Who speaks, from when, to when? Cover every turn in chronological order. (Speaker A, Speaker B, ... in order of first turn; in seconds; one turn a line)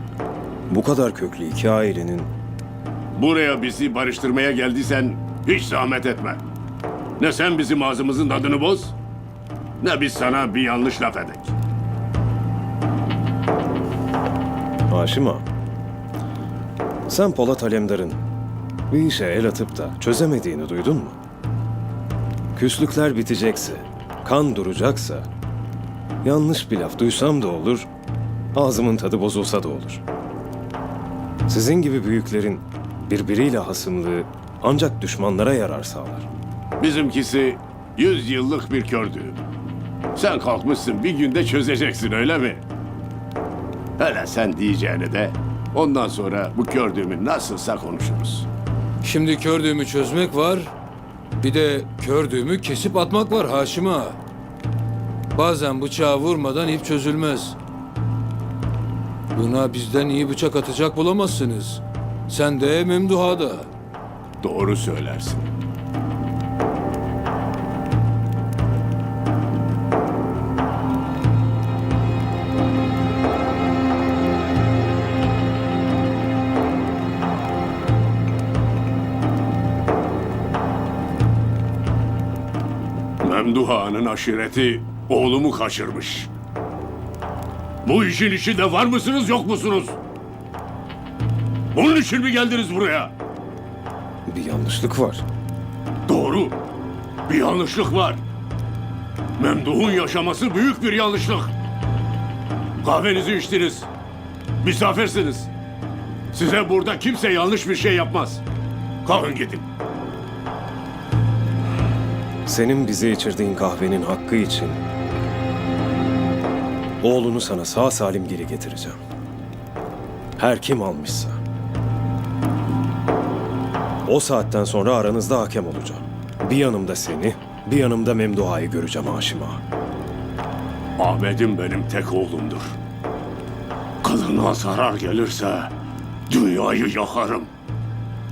Speaker A: 0.7-2.3
Speaker B: 3.1-6.4
Speaker B: 7.2-8.9
Speaker B: 9.8-11.5
Speaker A: 14.9-15.4
Speaker A: 17.1-18.2
Speaker A: 18.9-21.2
Speaker A: 22.6-25.3
Speaker A: 26.2-27.9
Speaker A: 28.6-30.0
Speaker A: 31.5-36.3
Speaker B: 36.8-39.4
Speaker B: 40.1-42.6
Speaker B: 44.0-48.5
Speaker C: 49.0-50.8
Speaker C: 51.4-54.2
Speaker C: 55.3-57.6
Speaker C: 59.3-63.7
Speaker B: 64.4-65.5
Speaker B: 83.2-86.3
Speaker B: 87.8-90.0
Speaker B: 91.7-93.1
Speaker A: 94.3-95.2
Speaker B: 96.1-96.6
Speaker B: 97.3-98.2
Speaker B: 99.4-101.5
Speaker B: 102.8-103.9
Speaker B: 104.6-105.5
Speaker B: 106.3-108.4
Speaker B: 109.0-109.7
Speaker A: 112.5-114.8
Speaker A: 117.0-119.0
Speaker A: 120.4-121.4
Speaker A: 124.1-129.6
Speaker B: 131.0-132.8
Speaker B: 134.0-135.7
Speaker B: 136.3-137.5